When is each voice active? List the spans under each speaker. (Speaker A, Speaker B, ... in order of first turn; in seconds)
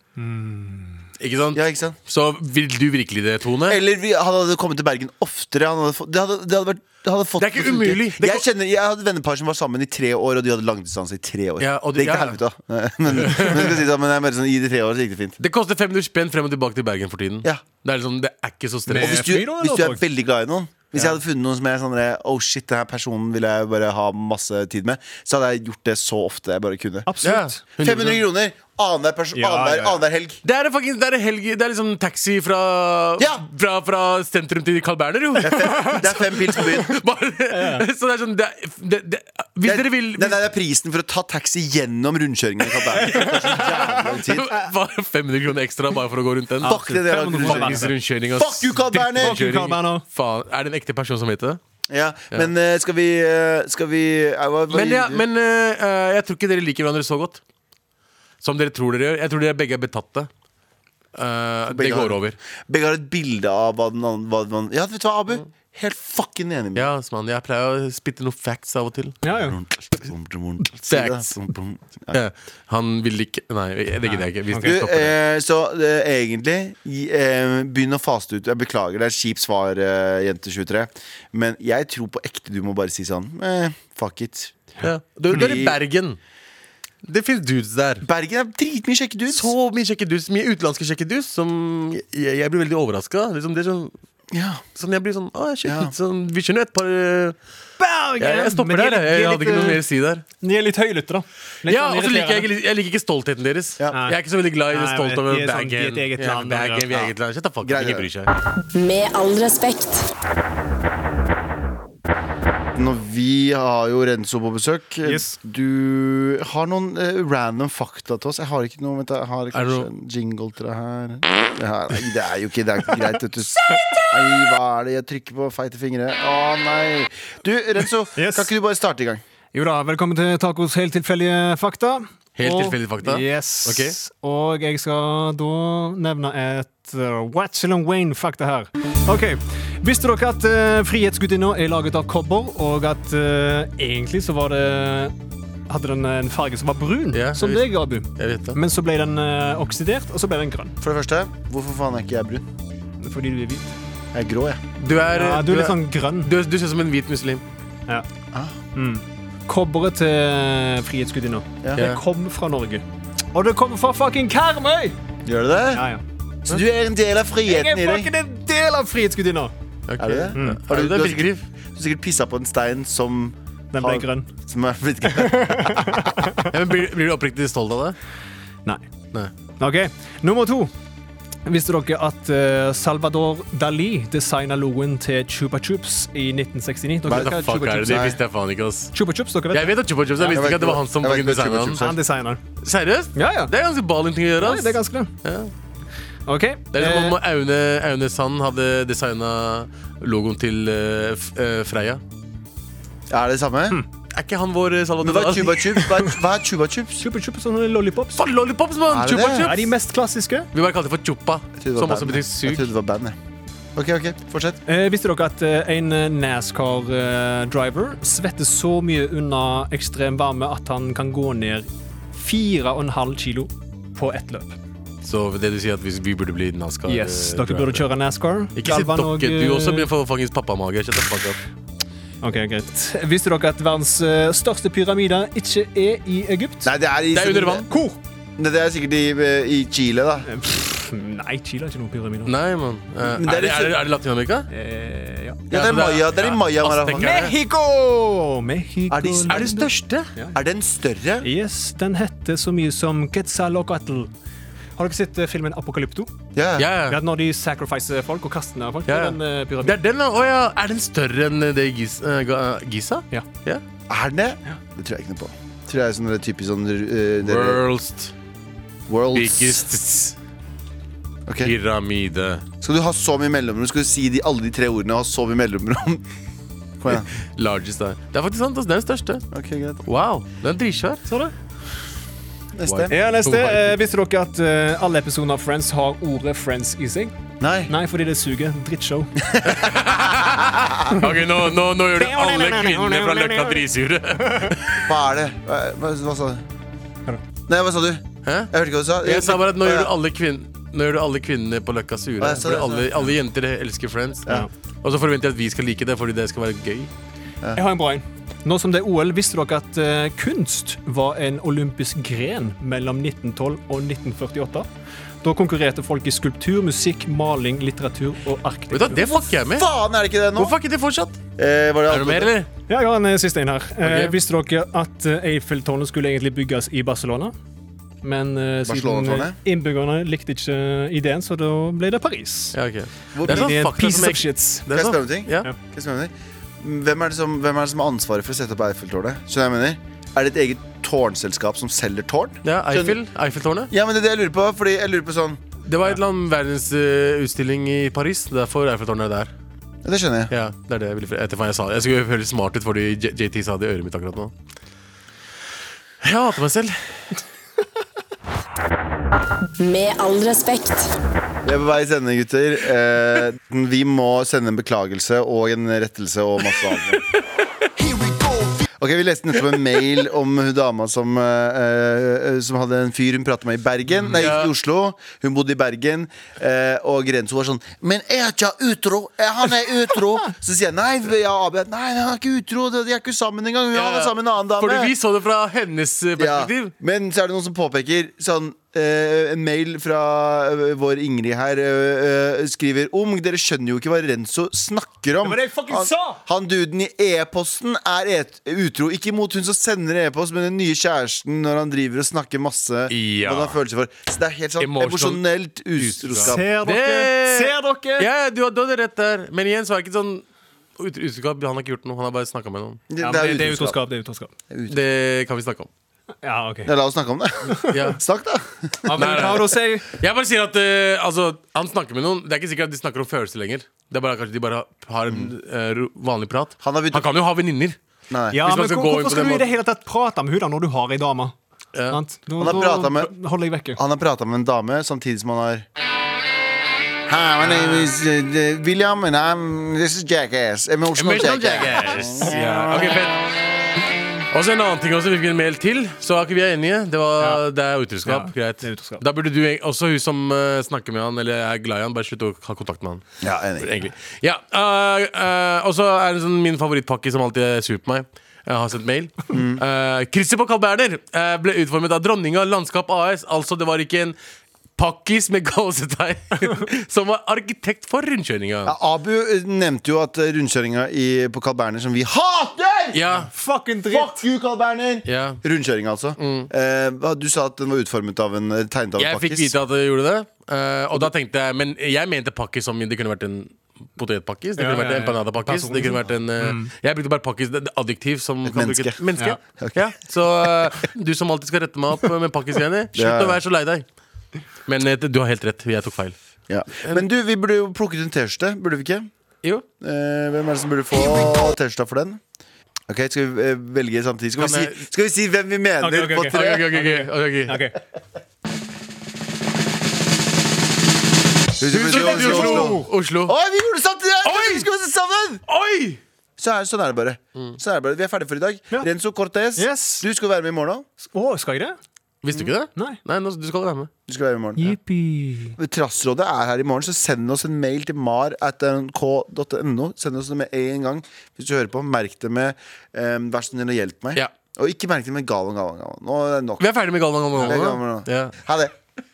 Speaker A: 0.1-1.0, 18.9-20.0, 27.1-27.6, 29.3-30.0, 35.7-36.0, 37.5-37.9, 43.0-44.0, 46.6-47.9, 48.9-50.0, 69.2-69.6, 74.1-74.7, 97.8-99.8, 100.4-102.5, 103.9-104.2, 104.7-107.1, 115.0-115.4, 128.2-128.5, 129.5-145.1, 145.7-150.8, 153.0-153.8, 155.1-156.3, 158.7-165.0, 165.7-166.0, 167.4-169.5, 170.3-170.6, 173.7-174.3, 175.1-176.5, 179.6-180.7, 181.4-188.2, 188.9-190.4, 191.8-192.4, 193.2-193.5, 194.4-195.1, 196.3-197.2, 205.7-206.2, 207.0-208.3, 209.4-210.5, 214.7-224.6, 226.9-229.9, 232.2-236.7, 237.7-238.0, 240.2-242.3, 244.5-245.4, 246.9-250.3, 251.2-254.1, 254.8-256.1, 256.9-259.8, 281.1-281.3, 282.9-287.1, 287.7-289.2, 291.9-293.7, 294.2-294.5, 307.5-314.7, 315.2-319.0, 322.7-327.3, 328.0-332.6, 333.2-334.7, 395.2-396.2, 406.2-408.1, 413.0-414.3, 416.2-416.7, 418.8-419.9, 428.3-431.3, 431.9-433.8, 437.4-437.9, 448.0-449.0, 473.3-474.1, 484.6-486.7, 505.8-507.8, 511.8-512.9, 519.5-520.0, 521.0-521.8, 524.6-525.6
Speaker B: 1.2-3.8, 7.4-8.4, 11.6-12.4, 13.1-13.8, 15.4-19.3, 27.2-28.2, 30.4-40.4, 42.9-51.6, 54.7-57.4, 58.4-60.3, 61.1-62.4, 66.7-69.2, 70.9-71.4, 72.1-75.1, 84.8-86.2, 87.0-88.0, 89.3-93.9, 94.7-97.3, 98.2-100.2, 101.6-108.3, 119.5-119.9, 132.4-133.9, 147.1-148.6, 154.8-157.4, 169.9-171.4, 176.4-177.9, 187.1-188.9, 189.5-191.8, 192.6-195.5, 196.7-202.0, 204.1-205.8, 208.2-209.7, 210.5-212.7, 225.0-227.8, 228.6-231.4, 237.1-237.7, 242.2-244.5, 245.5-247.3, 249.3-250.1, 256.6-257.0, 258.9-263.6, 267.2-268.1, 269.1-270.1, 271.4-272.4, 276.9-279.3, 279.8-281.1, 282.6-283.7, 289.4-294.8, 298.2-298.5, 299.0-304.3, 304.8-306.9, 318.7-319.7, 320.3-321.2, 321.9-322.5, 323.8-324.1, 332.5-335.5, 342.4-343.7, 345.6-349.3, 350.3-354.3, 356.0-356.8, 374.1-374.5, 383.7-386.7, 402.9-403.6, 404.6-405.2, 405.8-410.2, 410.8-412.8, 414.7-415.7, 417.7-418.0, 418.9-427.8, 428.3-429.5, 440.9-443.2, 444.3-453.0, 453.6-464.1, 464.8-468.7, 472.9-473.3, 475.1-475.4, 476.2-476.5, 479.0-493.8, 494.6-496.1, 504.4-504.8, 506.3-507.7, 511.7-513.3, 514.2-514.7, 515.5-516.0, 522.2-523.9, 536.6-538.3
Speaker C: 1.5-2.0, 3.7-15.4, 18.9-27.1, 27.8-30.4, 33.2-33.4, 35.4-37.0, 39.6-44.6, 46.6-49.4, 51.9-55.2, 61.7-66.9, 69.4-72.2, 74.6-84.6, 85.3-85.8, 88.0-89.5, 94.3-94.6, 95.6-95.9, 107.6-108.1, 112.8-129.2, 150.8-152.5, 154.1-154.6, 165.2-165.9, 166.4-168.1, 170.0-176.2, 187.1-188.2, 190.2-192.0, 203.1-203.8, 205.0-207.0, 208.9-209.5, 211.6-213.2, 213.7-214.6, 236.6-237.7, 238.4-240.3, 243.0-243.8, 245.5-247.3, 248.9-249.7, 250.3-251.2, 256.3-256.7, 263.9-267.6, 268.9-269.6, 271.3-271.5, 272.6-276.0, 276.8-277.1, 279.3-279.8, 282.5-282.9, 287.4-287.7, 289.2-291.0, 294.8-296.4, 297.5-299.9, 302.2-303.0, 318.9-320.6, 321.4-322.3, 328.6-329.4, 333.1-333.6, 334.7-343.0, 343.7-345.4, 349.8-350.3, 361.4-367.0, 367.8-384.9, 386.2-406.4, 412.9-413.8, 414.5-414.8, 416.6-419.4, 426.6-427.0, 428.1-428.4, 432.4-433.1, 433.8-435.6, 437.1-443.1, 453.2-453.7, 459.3-459.6, 468.6-473.0, 473.8-479.5, 488.4-489.0, 492.9-493.4, 496.5-499.1, 499.8-502.2, 502.9-506.6, 511.6-515.4, 516.4-520.9, 524.1-524.8, 525.6-536.6, 537.4-538.7
Speaker D: 108.7-110.1, 359.6-360.9